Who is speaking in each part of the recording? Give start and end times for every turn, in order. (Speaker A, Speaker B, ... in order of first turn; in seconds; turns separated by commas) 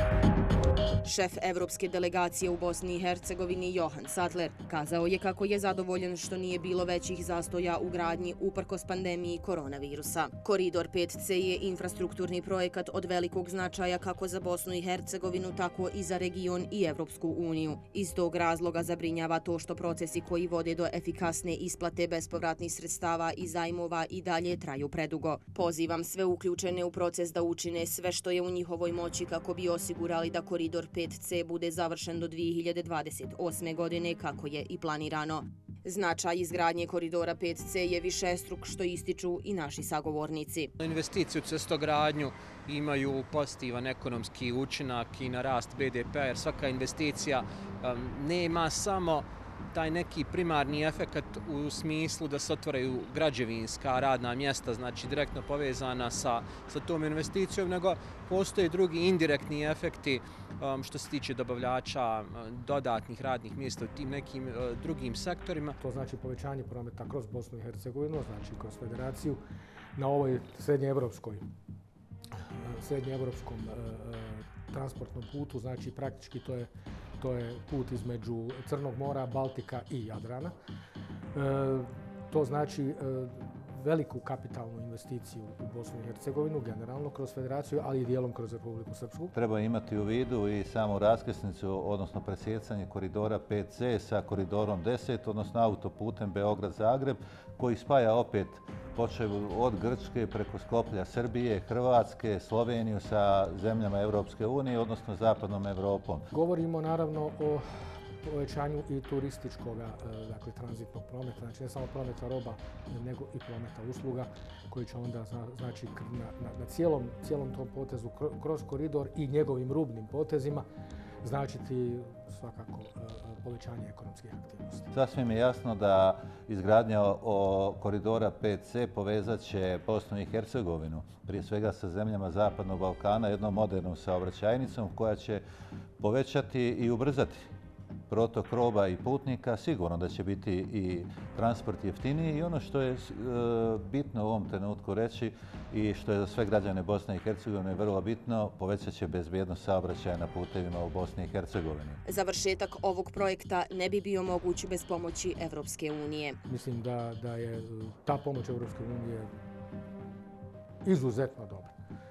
Speaker A: 1.0-40.7, Speaker B: 40.8-65.8, Speaker C: 65.8-69.4, Speaker C: 70.0-71.4, Speaker C: 72.6-76.7, Speaker C: 77.2-80.5, Speaker C: 81.3-89.3, Speaker D: 89.3-106.3, Speaker C: 106.3-107.6, Speaker C: 108.2-120.7, Speaker C: 121.2-124.9, Speaker D: 124.9-135.4, Speaker D: 136.0-137.5, Speaker D: 138.1-152.0, Speaker A: 152.1-156.4, Speaker C: 156.5-159.3, Speaker C: 160.8-161.7